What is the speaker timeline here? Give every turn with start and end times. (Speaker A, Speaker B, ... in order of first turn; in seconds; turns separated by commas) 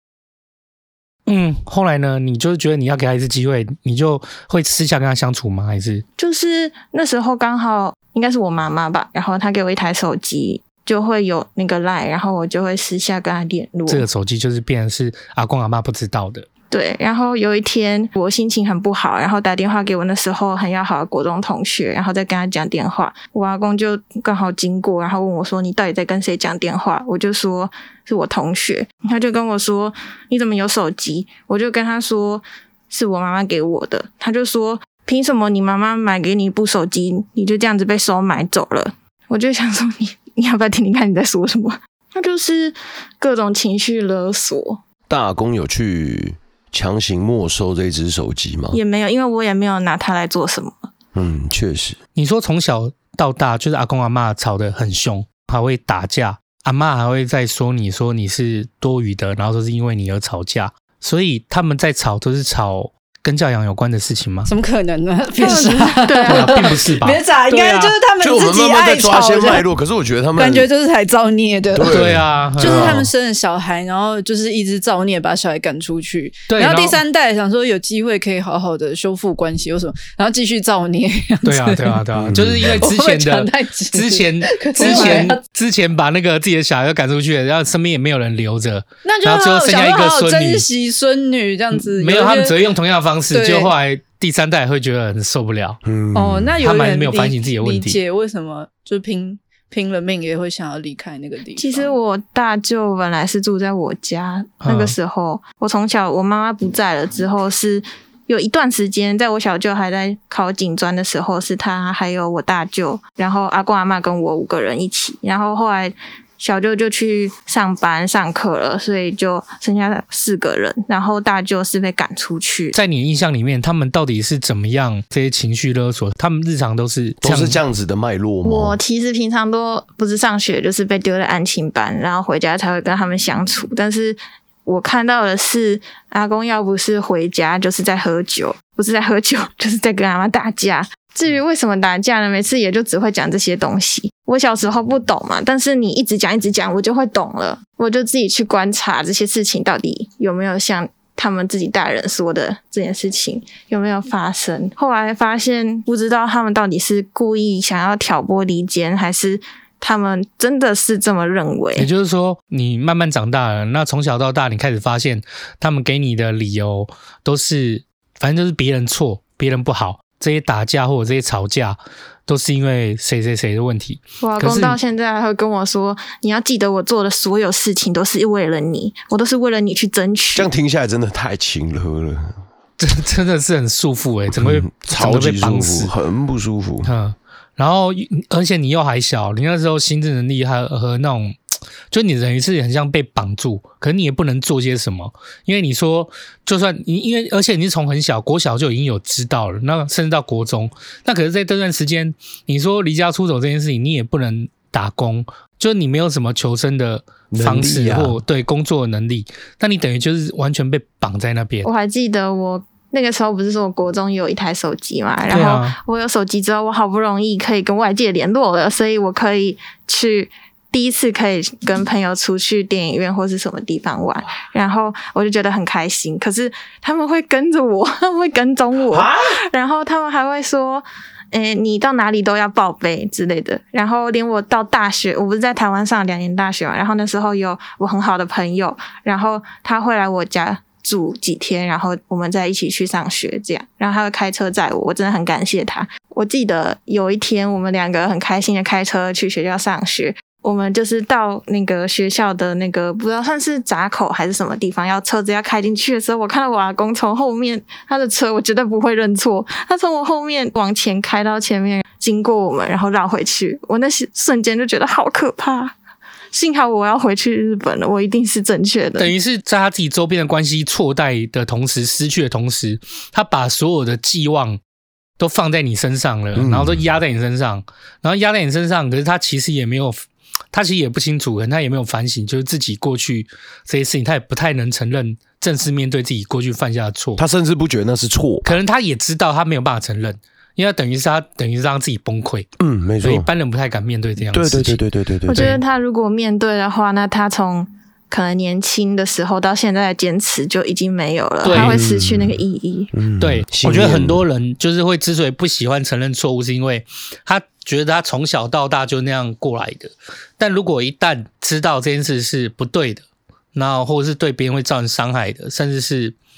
Speaker A: 1.2-6.0, Speaker B: 6.2-14.1, Speaker A: 13.9-16.5, Speaker B: 16.7-44.8, Speaker C: 45.1-48.8, Speaker B: 48.7-50.9, Speaker C: 51.1-52.0, Speaker A: 52.1-64.5, Speaker D: 64.5-69.7, Speaker A: 65.4-67.9, Speaker B: 66.0-66.6, Speaker C: 68.2-70.7, Speaker D: 70.3-82.0, Speaker C: 71.7-73.1, Speaker A: 71.9-73.0, Speaker A: 76.5-77.0, Speaker A: 81.4-90.6, Speaker C: 82.2-82.8, Speaker D: 82.6-85.4, Speaker B: 84.8-85.2, Speaker D: 89.0-92.6, Speaker A: 91.7-95.8, Speaker D: 93.3-93.7, Speaker C: 95.8-96.5, Speaker D: 96.1-101.9, Speaker A: 96.6-98.0, Speaker B: 101.5-122.7, Speaker A: 104.6-104.9, Speaker A: 122.7-127.6, Speaker C: 127.2-128.8, Speaker B: 128.4-161.9, Speaker A: 161.8-174.8, Speaker B: 174.2-180.5, Speaker C: 180.3-182.3, Speaker A: 182.8-185.9, Speaker C: 184.3-186.9, Speaker A: 186.8-191.3, Speaker A: 191.9-211.7, Speaker C: 207.3-208.2, Speaker B: 211.6-265.7, Speaker A: 215.3-215.8, Speaker C: 228.9-229.3, Speaker B: 266.3-269.1, Speaker A: 269.0-274.6, Speaker A: 275.2-280.0, Speaker C: 276.3-276.8, Speaker A: 280.5-287.2, Speaker C: 287.2-288.6, Speaker A: 288.4-292.5, Speaker C: 292.6-293.3, Speaker A: 293.0-294.8, Speaker C: 294.3-295.6, Speaker B: 295.3-302.9, Speaker A: 295.3-295.6, Speaker A: 301.4-301.8, Speaker C: 301.5-302.4, Speaker C: 302.9-304.2, Speaker A: 303.2-316.1